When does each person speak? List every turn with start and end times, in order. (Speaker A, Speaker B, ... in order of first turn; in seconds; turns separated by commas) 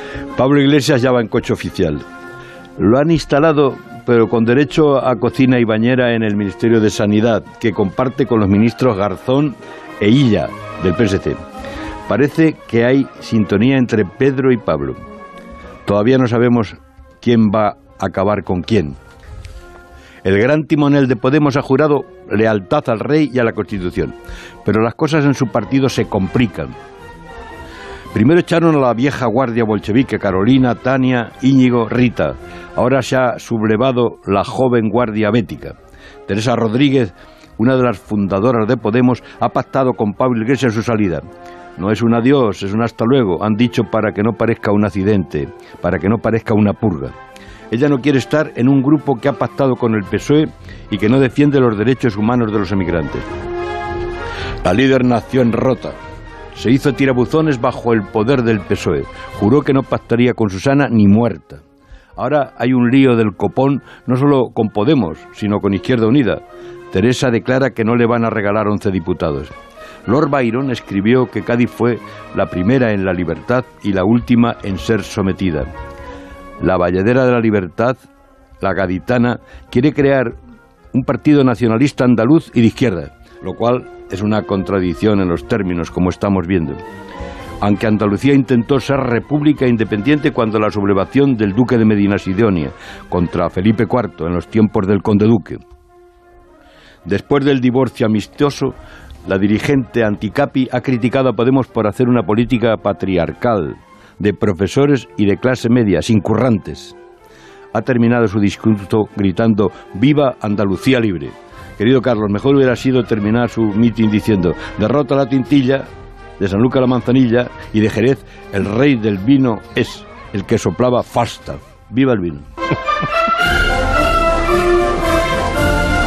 Speaker A: 0.3-2.0, Speaker A: 2.8-11.4, Speaker A: 12.1-15.0, Speaker A: 15.8-18.9, Speaker A: 20.2-26.7, Speaker A: 28.1-35.8, Speaker A: 36.3-41.2, Speaker A: 41.8-47.1, Speaker A: 47.7-53.2, Speaker A: 54.6-56.0, Speaker A: 56.5-61.6, Speaker A: 62.2-69.5, Speaker A: 70.0-75.7, Speaker A: 76.6-78.0, Speaker A: 78.6-80.3, Speaker A: 80.9-86.8, Speaker A: 87.6-95.6, Speaker A: 97.0-106.9, Speaker A: 107.7-115.9, Speaker A: 116.4-122.5